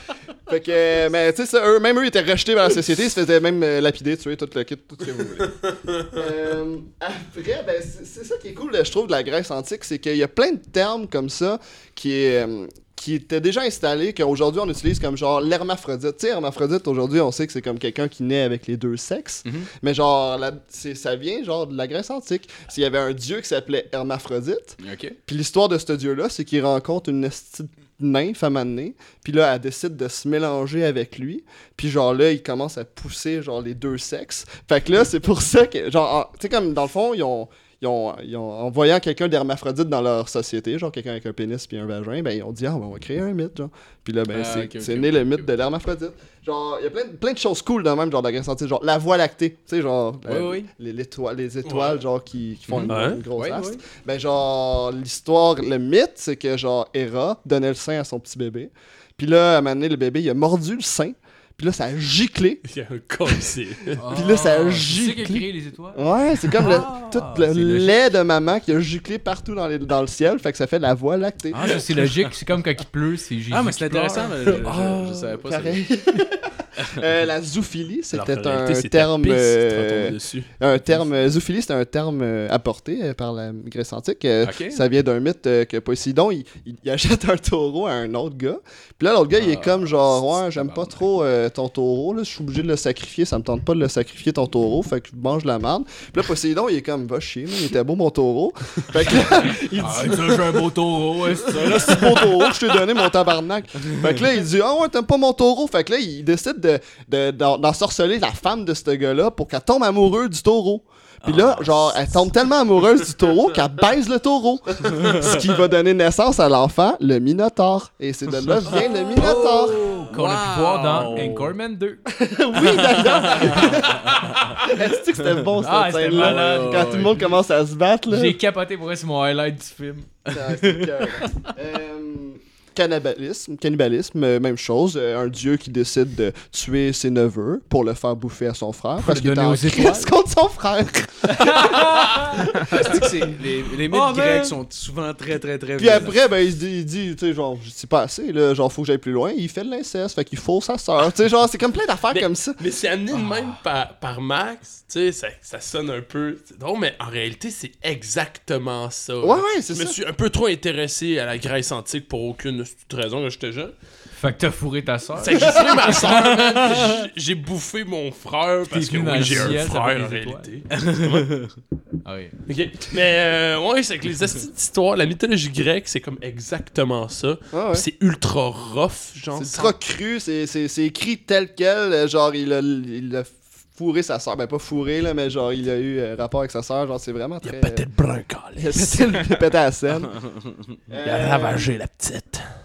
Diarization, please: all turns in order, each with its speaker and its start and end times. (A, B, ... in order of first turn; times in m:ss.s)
0:00.5-1:02.6 A
0:24.8-0:25.2 B
0:44.3-0:45.5 B
0:50.3-0:50.7 B
0:51.6-0:52.0 C
0:52.7-0:53.8 B
0:52.9-0:53.2 C
1:02.7-1:04.0 C
1:04.0-1:06.0 D
1:04.1-1:11.8 A
1:06.5-1:08.0 D
1:11.5-1:14.6 D
1:13.5-1:15.8 B
1:14.6-1:40.7 A
1:14.6-1:15.2 C
1:18.1-1:20.5 C
1:24.4-1:24.8 B
1:29.4-1:31.0 B
1:39.8-1:42.4 D
1:41.3-1:59.8 A
1:51.2-1:52.3 B
1:59.2-2:02.0 D
1:59.4-2:01.5 B
2:02.1-2:08.4 A
2:02.6-2:04.6 B
2:05.6-2:07.1 D
2:06.1-2:07.2 B
2:08.1-2:10.1 D
2:10.3-2:21.9 A
2:10.3-2:11.1 B
2:19.0-2:20.1 D
2:21.3-2:22.6 D
2:22.5-2:26.2 B
2:23.9-2:24.6 D
2:25.8-2:32.6 A
2:32.1-2:43.7 C
2:33.1-2:33.5 D
2:39.2-2:40.0 A
2:44.1-2:46.8 D
2:45.2-2:51.4 C
2:45.3-2:45.9 A
2:48.7-2:50.5 D
2:50.8-2:51.5 B
2:52.0-2:52.3 D
2:52.5-2:59.7 C
2:57.5-2:57.9 A
2:59.3-3:07.9 A
3:07.4-3:09.2 C
3:08.6-3:10.2 A
3:10.9-3:11.7 A
3:11.0-3:12.5 C